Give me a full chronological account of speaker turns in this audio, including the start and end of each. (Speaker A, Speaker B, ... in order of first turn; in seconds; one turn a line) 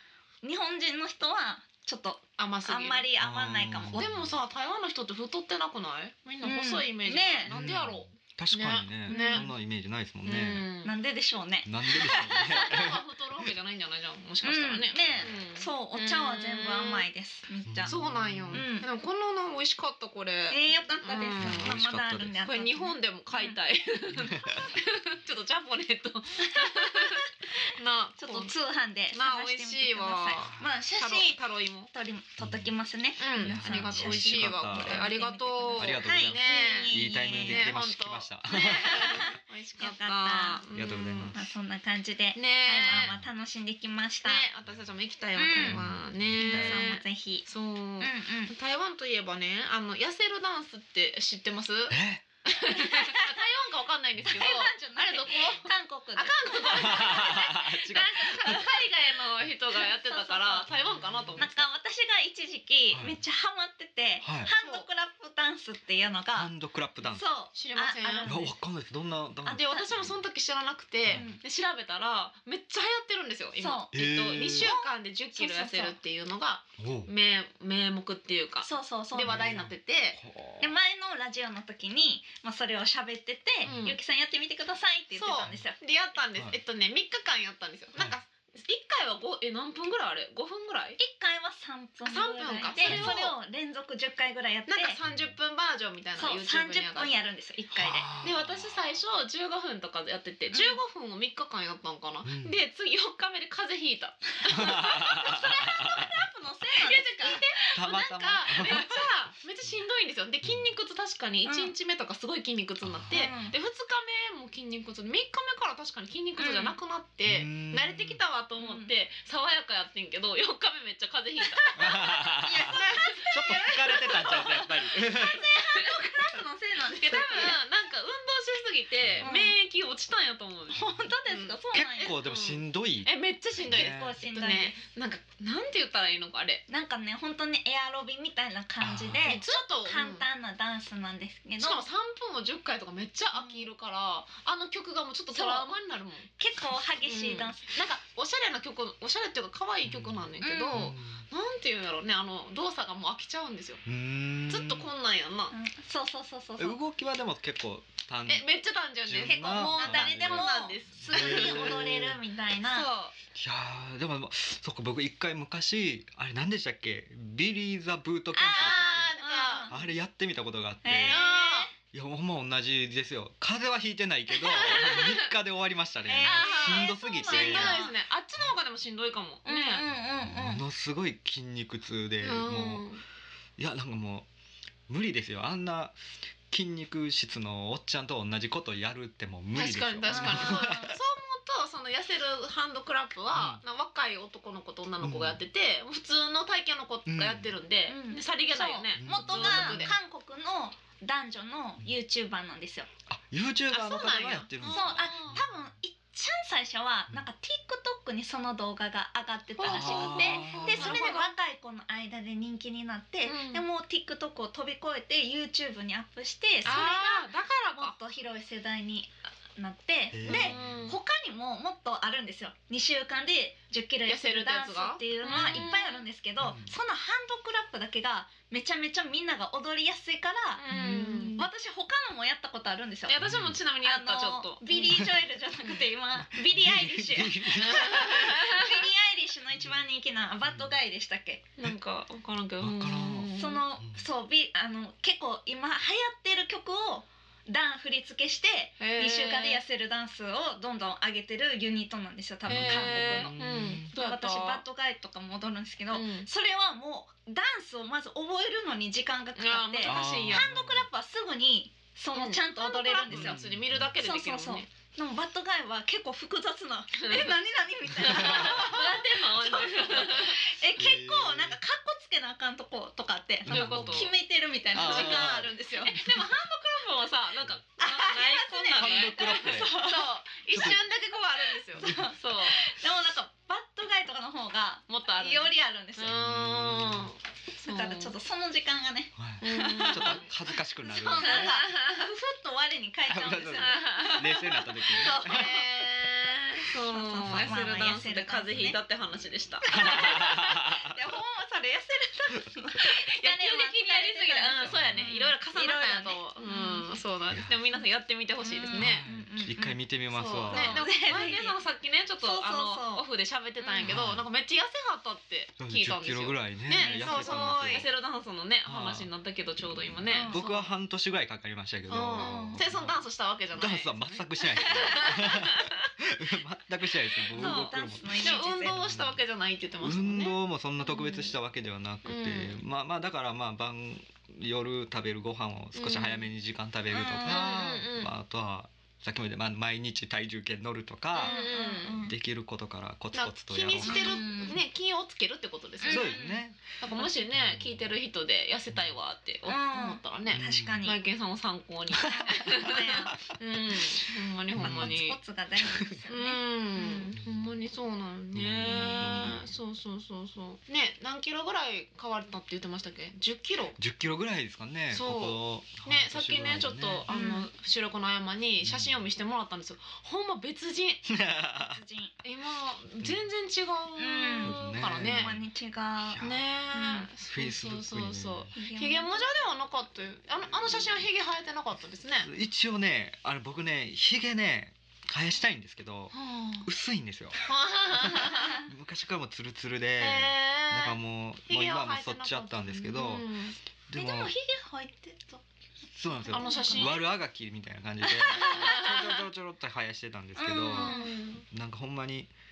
Speaker A: 0.4-4.1
Speaker B: 2.4-3.1
Speaker C: 3.2-4.3
Speaker B: 3.9-9.5
Speaker A: 6.4-7.5
Speaker C: 7.5-10.7
Speaker A: 9.1-9.5
Speaker B: 10.2-10.9
Speaker A: 10.8-12.8
Speaker C: 11.7-13.0
Speaker B: 12.1-17.1
Speaker A: 14.4-18.0
Speaker C: 17.7-18.6
Speaker B: 17.9-21.7
Speaker A: 18.5-18.9
Speaker A: 20.5-23.6
Speaker C: 21.4-22.4
Speaker B: 22.4-28.5
Speaker C: 24.1-24.7
Speaker A: 26.4-27.3
Speaker A: 28.2-31.4
Speaker B: 29.1-31.9
Speaker A: 31.9-37.7
Speaker C: 32.4-32.7
Speaker B: 33.2-41.4
Speaker C: 33.4-35.1
Speaker C: 35.8-39.1
Speaker A: 38.5-40.6
Speaker C: 40.7-41.4
Speaker A: 41.3-44.5
Speaker B: 42.4-43.2
Speaker B: 44.2-61.6
Speaker A: 45.4-45.8
Speaker C: 45.6-46.9
Speaker A: 46.4-47.5
Speaker A: 48.0-48.5
Speaker C: 51.9-52.2
Speaker A: 52.7-53.3
Speaker A: 54.3-57.5
Speaker C: 56.8-58.6
Speaker A: 58.2-58.7
Speaker A: 59.8-60.7
Speaker A: 61.4-68.5
Speaker C: 62.9-63.2
Speaker C: 64.2-64.5
Speaker C: 66.3-67.3
Speaker B: 67.5-68.5
Speaker C: 68.2-70.1
Speaker A: 69.5-69.9
Speaker B: 69.5-80.2
Speaker A: 71.1-71.4
Speaker A: 73.6-76.0
Speaker C: 73.9-74.7
Speaker C: 76.8-77.1
Speaker A: 78.6-79.5
Speaker C: 79.3-80.7
Speaker A: 80.6-85.8
Speaker C: 83.6-84.0
Speaker B: 83.7-84.0
Speaker B: 85.1-91.0
Speaker A: 91.0-95.0
Speaker B: 92.0-93.3
Speaker C: 92.8-93.2
Speaker B: 94.7-97.1
Speaker C: 95.0-95.3
Speaker A: 96.2-98.1
Speaker C: 97.7-98.8
Speaker B: 98.2-105.1
Speaker A: 100.5-100.8
Speaker C: 102.2-102.6
Speaker C: 104.5-106.1
Speaker A: 104.5-107.4
Speaker B: 106.8-124.7
Speaker C: 107.7-109.1
Speaker A: 111.5-111.7
Speaker C: 112.8-113.4
Speaker A: 113.1-113.5
Speaker A: 116.4-116.8
Speaker C: 117.3-118.2
Speaker A: 118.6-118.9
Speaker C: 121.8-125.5
Speaker A: 122.4-127.6
Speaker B: 126.9-136.6
Speaker A: 129.2-129.6
Speaker A: 130.7-132.2
Speaker C: 131.7-134.2
Speaker A: 133.7-134.8
Speaker A: 136.7-141.8
Speaker C: 138.8-139.4
Speaker B: 139.2-140.2
Speaker B: 141.6-146.3
Speaker A: 143.3-143.7
Speaker A: 145.3-145.7
Speaker A: 146.4-147.8
Speaker B: 147.0-153.8
Speaker C: 149.8-151.2
Speaker A: 150.4-150.9
Speaker C: 153.9-154.9
Speaker B: 154.5-155.5
Speaker A: 155.5-156.8
Speaker C: 156.6-158.5
Speaker B: 158.3-161.9
Speaker C: 159.0-162.2
Speaker A: 159.2-162.9
Speaker B: 162.6-163.2
Speaker C: 163.3-169.1
Speaker A: 168.3-169.8
Speaker B: 168.5-169.7
Speaker C: 169.7-171.2
Speaker A: 170.8-171.7
Speaker B: 171.1-171.7
Speaker C: 171.9-177.8
Speaker B: 174.3-175.3
Speaker A: 176.1-177.9
Speaker B: 176.2-179.8
Speaker A: 179.4-180.6
Speaker C: 180.3-182.9
Speaker B: 182.2-183.0
Speaker C: 183.6-184.3
Speaker C: 184.9-186.0
Speaker C: 186.5-191.0
Speaker B: 189.5-199.9
Speaker A: 190.1-190.9
Speaker C: 193.3-193.6
Speaker C: 195.0-195.4
Speaker C: 197.1-197.6
Speaker A: 197.9-202.9
Speaker C: 199.0-199.9
Speaker C: 203.1-205.4
Speaker B: 203.7-205.4
Speaker A: 204.6-233.2
Speaker B: 209.6-211.3
Speaker C: 209.6-211.0
Speaker B: 213.3-213.6
Speaker B: 216.7-217.9
Speaker C: 220.1-220.8
Speaker B: 220.3-221.0
Speaker B: 224.1-226.0
Speaker C: 226.4-226.7
Speaker B: 230.6-231.5
Speaker C: 230.7-231.3
Speaker B: 233.1-235.0
Speaker C: 233.2-233.6
Speaker A: 233.8-241.4
Speaker C: 234.8-235.1
Speaker C: 236.2-238.2
Speaker B: 237.6-238.8
Speaker B: 241.6-243.6
Speaker C: 242.6-244.0
Speaker A: 243.4-263.4
Speaker B: 248.8-249.6
Speaker C: 252.5-253.9
Speaker B: 252.5-254.6
Speaker B: 255.9-256.3
Speaker B: 259.4-260.5
Speaker C: 259.8-260.9
Speaker B: 262.1-264.7
Speaker C: 263.1-263.9
Speaker A: 264.0-276.1
Speaker B: 267.0-267.4
Speaker B: 268.0-270.4
Speaker C: 268.1-268.6
Speaker C: 270.8-271.6
Speaker C: 273.5-274.1
Speaker B: 273.5-274.1
Speaker C: 274.7-275.5
Speaker B: 274.7-282.6
Speaker A: 277.8-280.7
Speaker C: 278.7-279.8
Speaker C: 280.5-280.8
Speaker A: 281.7-286.2
Speaker B: 284.9-288.2
Speaker C: 286.1-287.1
Speaker A: 287.6-290.3
Speaker C: 289.2-291.6
Speaker B: 289.4-290.3
Speaker A: 290.8-295.6
Speaker B: 291.1-292.1
Speaker C: 293.1-295.5
Speaker B: 293.6-300.6
Speaker A: 296.8-298.8
Speaker C: 297.3-297.6
Speaker A: 299.7-306.9
Speaker C: 299.7-300.9
Speaker B: 302.8-309.1
Speaker C: 304.7-305.0
Speaker C: 307.3-307.6
Speaker A: 308.4-309.8
Speaker C: 308.7-310.9
Speaker B: 310.1-320.7
Speaker A: 310.5-311.6
Speaker A: 312.2-313.1
Speaker A: 313.6-314.0
Speaker C: 313.8-314.3
Speaker C: 315.6-317.9
Speaker A: 316.8-317.9
Speaker C: 318.7-322.9
Speaker A: 320.1-320.5
Speaker B: 321.9-325.9
Speaker A: 322.2-322.6
Speaker C: 323.6-329.2
Speaker B: 327.3-331.3
Speaker A: 327.4-328.8
Speaker C: 329.8-341.4
Speaker B: 332.1-332.6
Speaker B: 335.8-336.3
Speaker A: 336.9-337.6
Speaker B: 337.2-338.1
Speaker B: 341.1-342.1
Speaker A: 341.2-342.1
Speaker C: 342.0-344.3
Speaker B: 343.1-346.2
Speaker A: 343.8-344.6
Speaker A: 345.8-346.4
Speaker C: 345.9-346.8
Speaker B: 346.8-355.2
Speaker C: 347.3-347.9
Speaker A: 349.5-351.0
Speaker C: 350.3-350.8
Speaker A: 352.0-353.2
Speaker C: 354.6-355.0
Speaker A: 354.6-357.1
Speaker B: 356.1-363.8
Speaker C: 358.3-359.5
Speaker C: 363.8-367.1
Speaker B: 364.9-371.0
Speaker A: 367.1-367.5
Speaker C: 368.6-368.9
Speaker C: 371.1-371.8
Speaker A: 371.6-372.1
Speaker B: 372.2-375.4
Speaker A: 374.0-377.1
Speaker C: 374.4-375.4
Speaker C: 376.1-376.4
Speaker B: 376.2-382.3
Speaker C: 377.3-378.5
Speaker A: 378.5-379.3
Speaker C: 382.2-387.4
Speaker A: 386.1-386.7
Speaker B: 387.4-388.6
Speaker C: 387.9-393.3
Speaker B: 390.0-393.6
Speaker C: 393.9-394.3
Speaker A: 393.9-395.4
Speaker C: 395.9-402.3
Speaker A: 396.2-397.0
Speaker B: 396.3-397.0
Speaker A: 398.1-398.7
Speaker B: 398.3-399.2
Speaker A: 400.4-401.1
Speaker B: 400.7-401.4